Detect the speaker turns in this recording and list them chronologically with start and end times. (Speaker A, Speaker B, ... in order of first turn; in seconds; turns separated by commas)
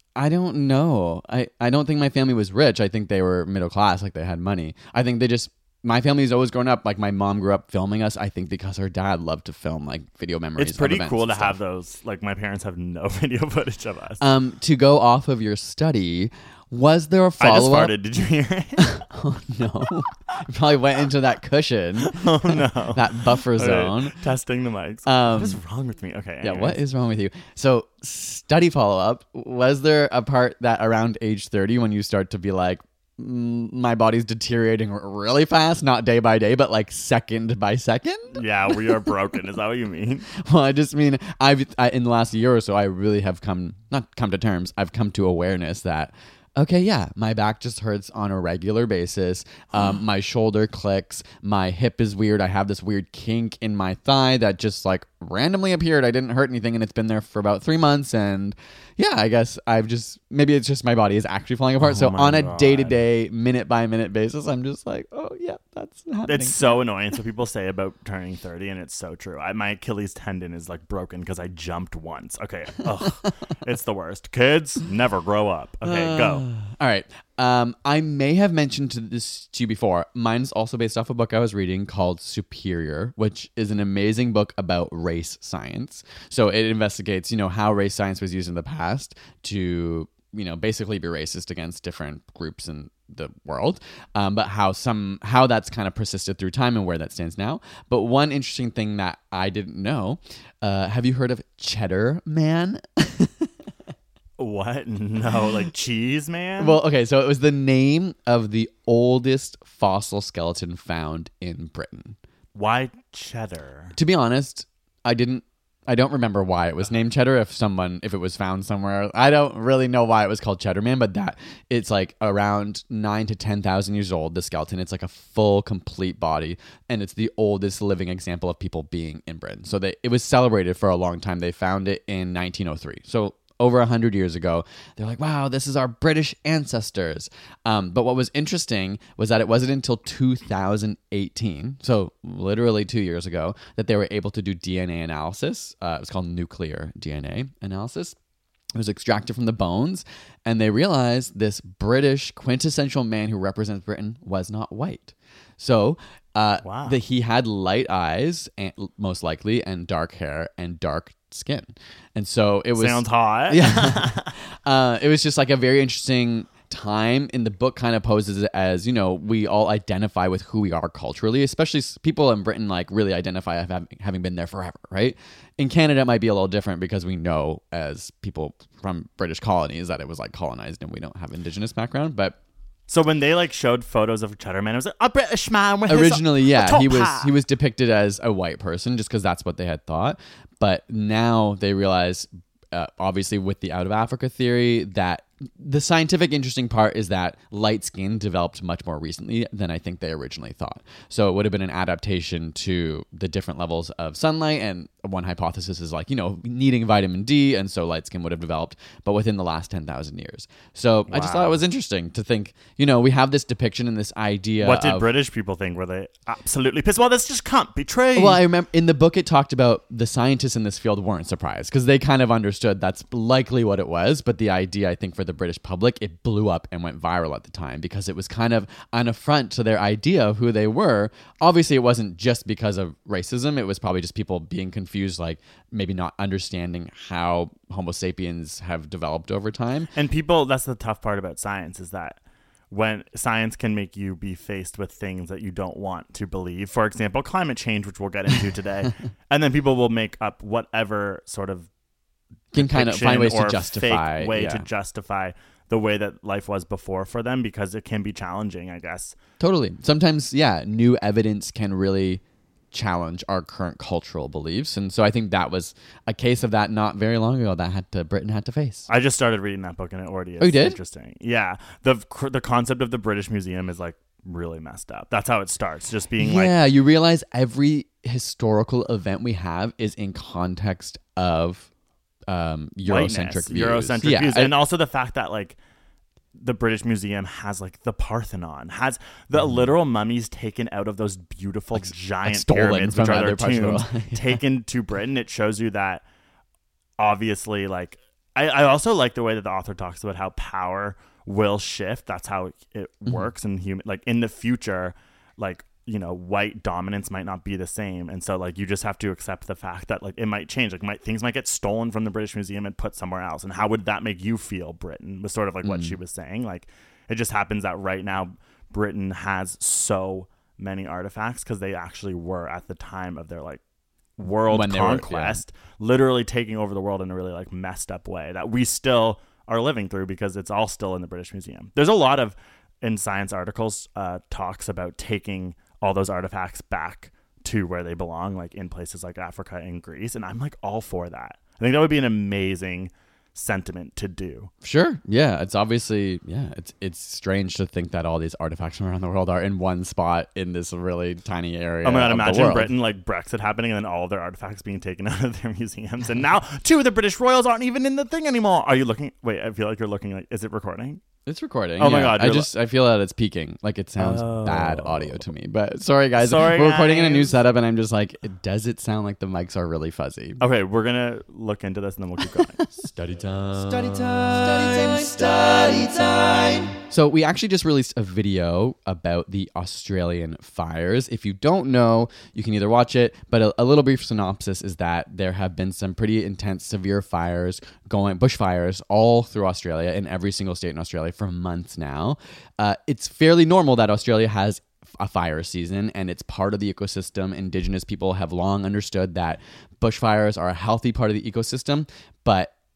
Speaker A: 0.2-11.6, Speaker B: 10.6-14.2, Speaker A: 14.2-18.0, Speaker B: 17.4-19.0, Speaker A: 18.9-24.2, Speaker B: 22.0-26.8, Speaker A: 25.1-25.6, Speaker A: 26.4-39.0, Speaker B: 38.3-40.3, Speaker A: 40.3-66.8, Speaker B: 61.8-63.0, Speaker B: 66.2-76.5, Speaker A: 75.8-103.5, Speaker B: 104.4-106.8, Speaker A: 106.6-112.2, Speaker B: 112.5-114.0, Speaker A: 114.0-148.2, Speaker A: 148.7-182.4, Speaker B: 156.6-157.0, Speaker B: 162.8-164.3, Speaker B: 182.9-187.3, Speaker A: 185.9-215.1, Speaker B: 211.1-211.6, Speaker B: 214.6-218.4, Speaker A: 218.2-239.9, Speaker B: 239.9-242.2, Speaker B: 242.7-251.7, Speaker A: 252.5-254.7, Speaker B: 252.6-259.2, Speaker A: 259.4-268.9, Speaker B: 268.9-276.5, Speaker A: 270.4-270.8, Speaker A: 276.2-281.7, Speaker A: 282.3-284.6, Speaker B: 282.9-285.6, Speaker B: 286.4-296.0, Speaker A: 289.4-289.7, Speaker A: 291.7-294.4, Speaker B: 297.0-323.6, Speaker A: 315.6-316.0, Speaker B: 324.2-344.5, Speaker A: 324.5-325.4, Speaker A: 344.6-352.7, Speaker B: 351.8-361.0, Speaker A: 361.3-370.4, Speaker B: 361.8-362.5, Speaker B: 364.0-365.2, Speaker B: 366.2-367.3, Speaker B: 370.4-372.7, Speaker A: 372.4-376.0, Speaker C: 373.6-376.8, Speaker A: 376.9-402.5